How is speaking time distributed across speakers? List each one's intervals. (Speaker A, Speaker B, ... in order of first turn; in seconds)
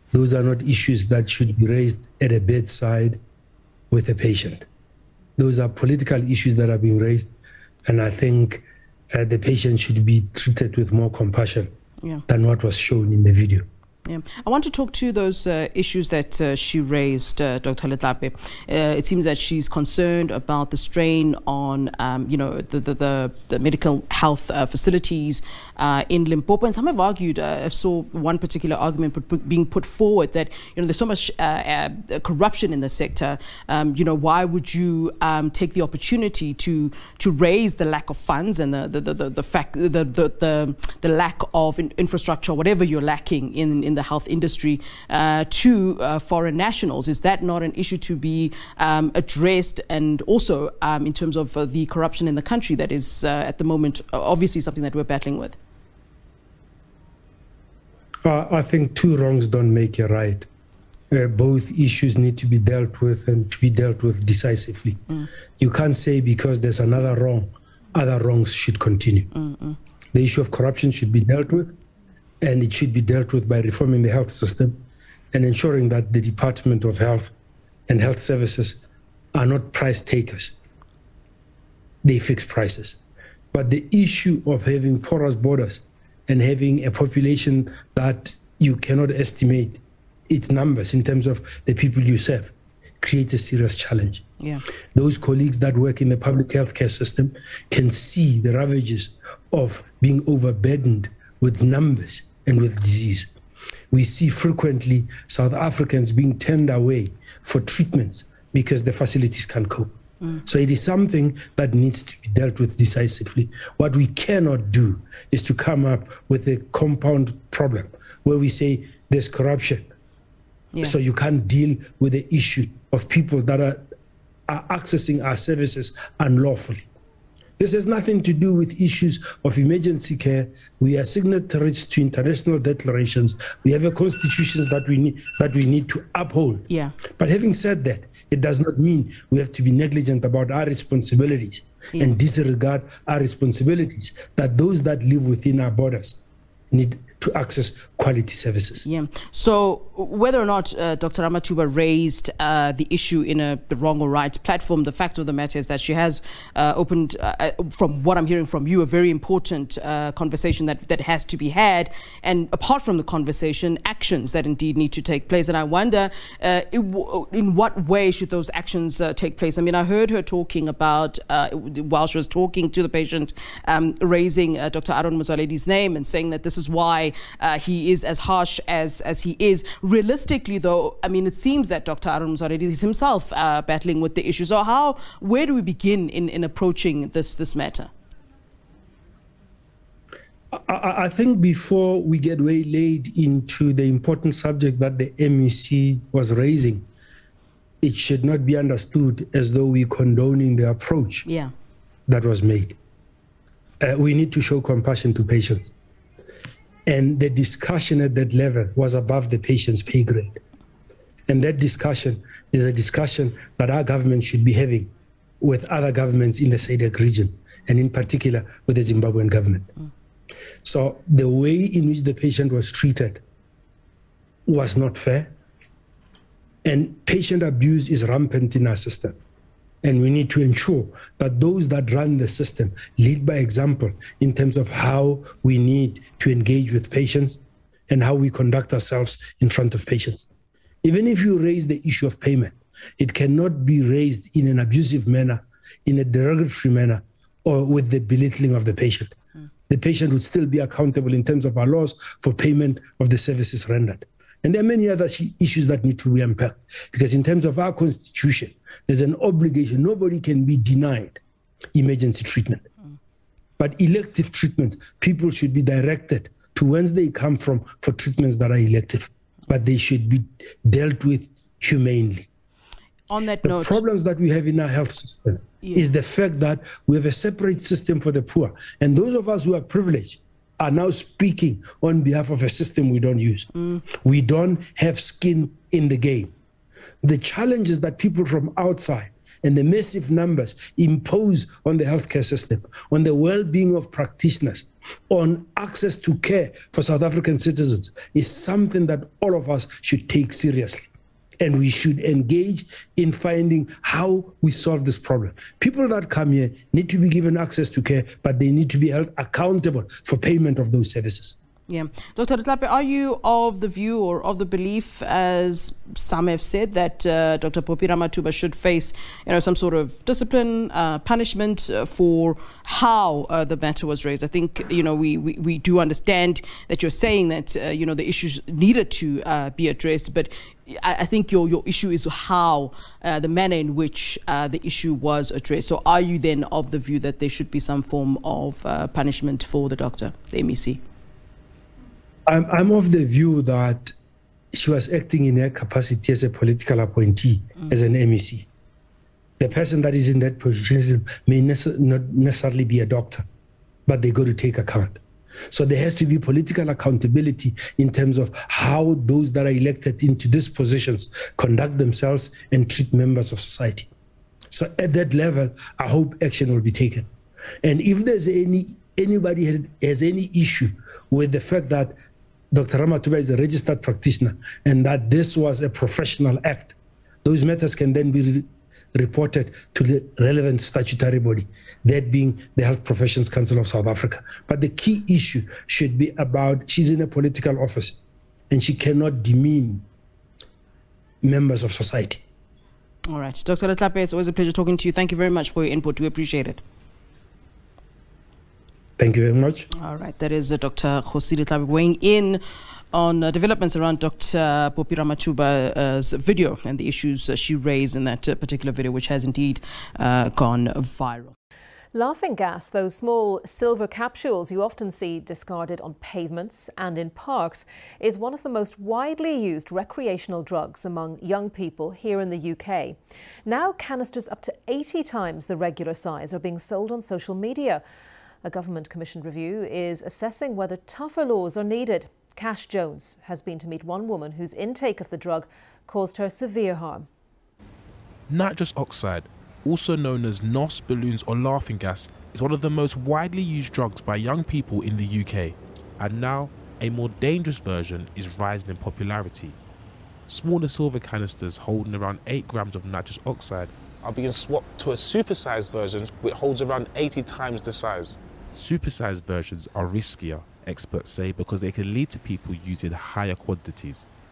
Speaker A: 0.1-3.2, 3.9-4.7, 5.4-7.3, 7.9-11.7, 12.3-13.7, 58.2-60.5, 61.1-65.0, 65.6-69.3, 70.1-71.8, 72.4-74.8, 75.3-77.3, 77.9-78.8, 79.3-80.5, 82.0-83.0, 83.5-94.2, 95.0-103.3, 103.9-119.9, 120.8-123.8, 124.5-126.9, 127.6-146.2, 146.7-148.8, 190.6-196.9, 197.8-201.2, 202.1-202.8, 203.8-205.7, 206.9-210.4, 211.3-219.7, 220.6-223.2, 224.5-225.3, 226.7-229.2, 229.8-240.3, 240.8-249.1, 249.7-261.2, 261.7-262.6, 263.6-272.3, 273.4-286.3, 287.0-300.9, 301.4-311.4, 342.3-343.9, 344.6-348.4, 349.4-353.2, 353.9-363.9, 364.5-367.1, 367.6-371.9, 372.5-388.0, 388.5-389.8, 391.2-392.2, 399.0-399.6
Speaker B: 14.1-55.6, 69.3-69.8, 136.7-136.9, 141.9-142.2, 148.8-187.9, 201.2-201.5, 273.1-273.8, 275.6-275.9, 283.6-283.8, 311.7-340.8, 393.1-396.6, 399.8-402.4, 402.9-411.4
Speaker C: 411.9-427.8, 428.4-437.1
Speaker D: 438.3-449.6, 450.3-453.7, 458.6-464.1
Speaker E: 454.0-458.2